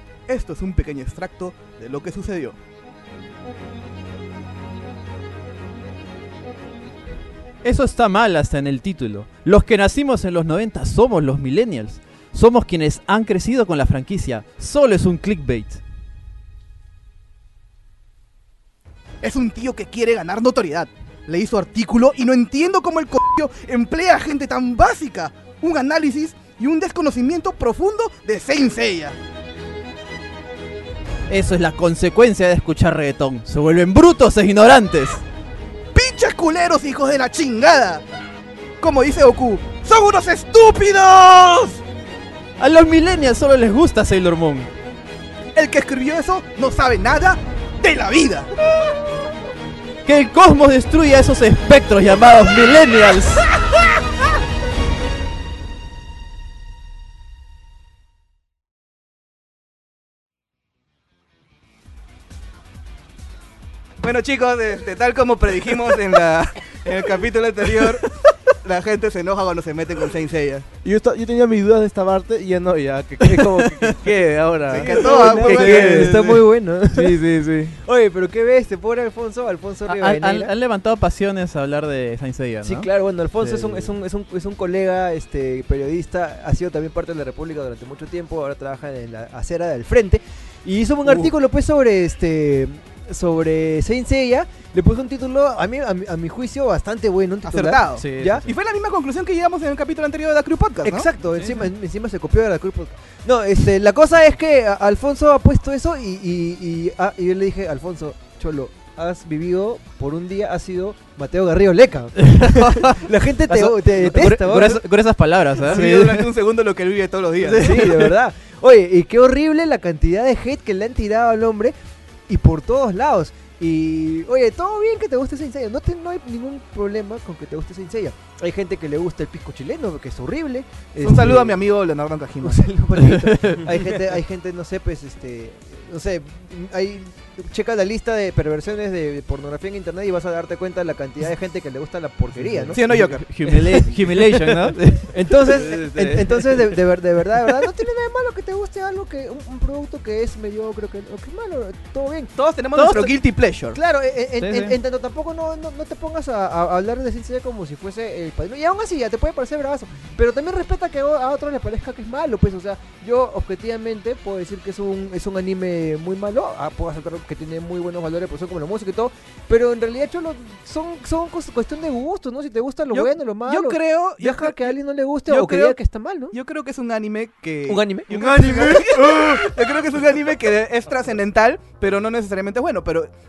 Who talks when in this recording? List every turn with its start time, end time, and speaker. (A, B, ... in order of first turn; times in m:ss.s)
0:00.3-0:02.6 A
0:07.6-0:15.8 B
0:19.2-0:29.2 A
0:31.3-0:35.2 B
0:35.9-0:38.0 A
0:38.8-0:41.8 A
0:42.6-0:44.7 B
0:45.6-0:48.5 A
0:50.1-0:53.6 B
1:04.0-1:10.7 A
1:10.8-1:16.4 C
1:14.7-1:16.4 A
1:14.7-1:20.5 D
1:16.9-1:17.4 C
1:19.9-1:22.9 B
1:22.6-1:38.4 D
1:23.4-1:23.9 B
1:37.5-1:41.1 A
1:37.9-1:38.5 B
1:40.8-1:54.8 D
1:41.4-1:41.7 B
1:52.2-1:52.8 B
1:52.6-1:53.0 A
1:53.5-1:56.3 B
1:55.6-1:57.8 A
1:57.4-1:58.0 C
1:57.5-2:01.8 D
2:02.3-2:11.6 D
2:11.0-2:12.6 A
2:12.4-2:22.8 D
2:13.0-2:13.7 B
2:22.4-2:24.8 C
2:22.7-2:23.2 A
2:22.9-2:25.2 B
2:23.5-2:23.9 D
2:25.1-2:32.3 D
2:25.5-2:26.7 C
2:32.4-2:33.8 A
2:32.8-2:33.2 B
2:33.7-2:56.4 D
2:34.4-2:34.8 B
2:52.9-2:54.8 A
2:55.3-2:55.8 A
2:56.3-3:03.1 A
2:57.7-2:59.5 D